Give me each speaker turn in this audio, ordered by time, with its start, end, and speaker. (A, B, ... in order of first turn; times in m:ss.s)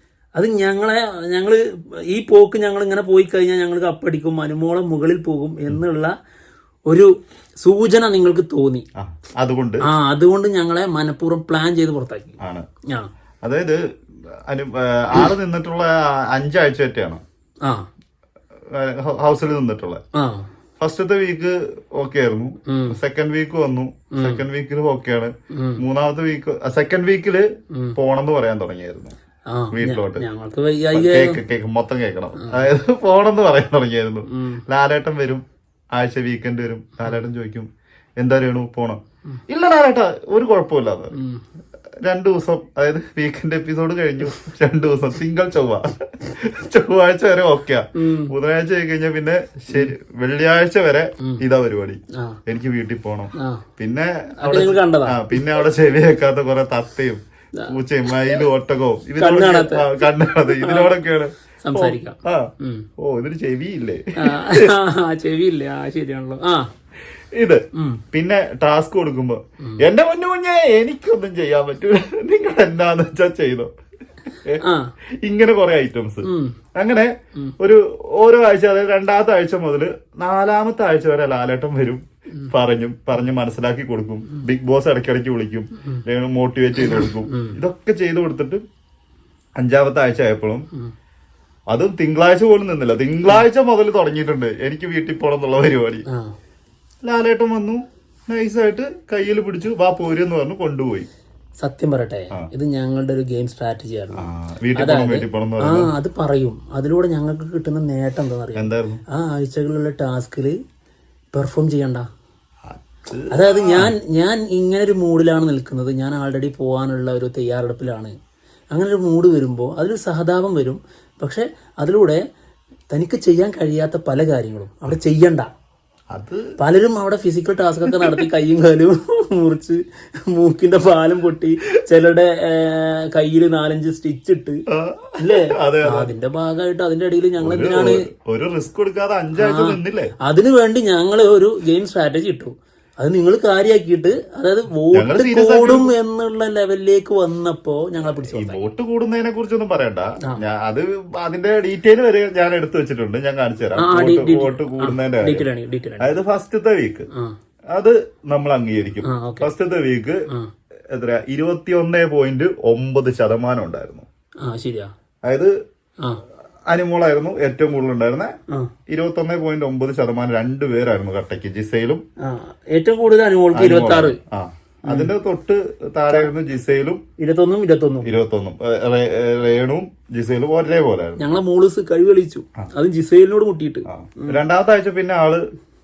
0:00.4-0:06.1 A
0:07.6-0:08.8 A
0:09.0-0:09.9 B
0:09.8-0:12.4 A
0:13.4-0:13.8 B
0:14.5-0:17.2 B
0:18.7-0:20.0 B
0:20.2-0:20.5 A
0:20.8-0:29.2 B
0:22.7-0:23.0 A
0:24.2-0:24.4 A
0:25.5-0:25.8 A
0:29.5-0:31.4 A
0:29.7-0:30.2 B
0:30.9-0:37.7 B
0:32.4-0:32.6 A
0:34.3-0:34.6 A
0:38.2-0:41.2 B
0:41.1-0:41.4 A
0:42.0-1:04.7 B
0:48.0-0:48.3 A
0:53.4-0:53.6 A
0:54.4-0:55.6 A
0:57.6-0:58.4 A
0:59.2-0:59.9 A
1:00.5-1:00.9 A
1:01.6-1:02.9 A
1:04.2-1:06.7 A
1:07.4-1:13.7 B
1:07.8-1:08.0 A
1:14.6-1:14.9 A
1:15.2-1:28.6 B
1:16.2-1:16.6 A
1:26.8-1:27.6 A
1:29.6-1:30.7 B
1:31.7-1:36.0 B
1:36.1-1:36.3 A
1:37.0-1:41.1 B
1:41.6-1:50.6 A
1:44.2-1:45.9 B
1:48.6-1:49.0 B
1:51.3-1:52.1 A
1:52.7-1:54.0 B
1:53.3-1:58.2 A
1:58.7-2:02.2 A
2:02.9-2:05.5 A
2:06.1-2:06.5 B
2:06.6-2:14.6 A
2:07.8-2:08.2 B
2:14.7-2:16.1 B
2:15.2-2:18.0 A
2:17.4-2:20.1 B
2:19.4-2:28.6 A
2:24.9-2:25.9 B
2:28.2-2:35.5 B
2:33.8-2:36.1 A
2:36.0-2:37.1 B
2:37.7-2:40.2 B
2:39.0-2:39.5 A
2:40.9-2:44.1 B
2:44.4-2:44.9 A
2:45.3-2:45.5 B
2:46.7-2:48.3 B
2:48.9-2:52.0 B
2:52.2-2:54.2 A
2:53.5-2:57.0 B
2:54.9-2:55.1 A
2:57.2-2:58.1 A
2:58.0-3:01.2 B
3:01.2-3:04.4 A
3:03.9-3:05.5 B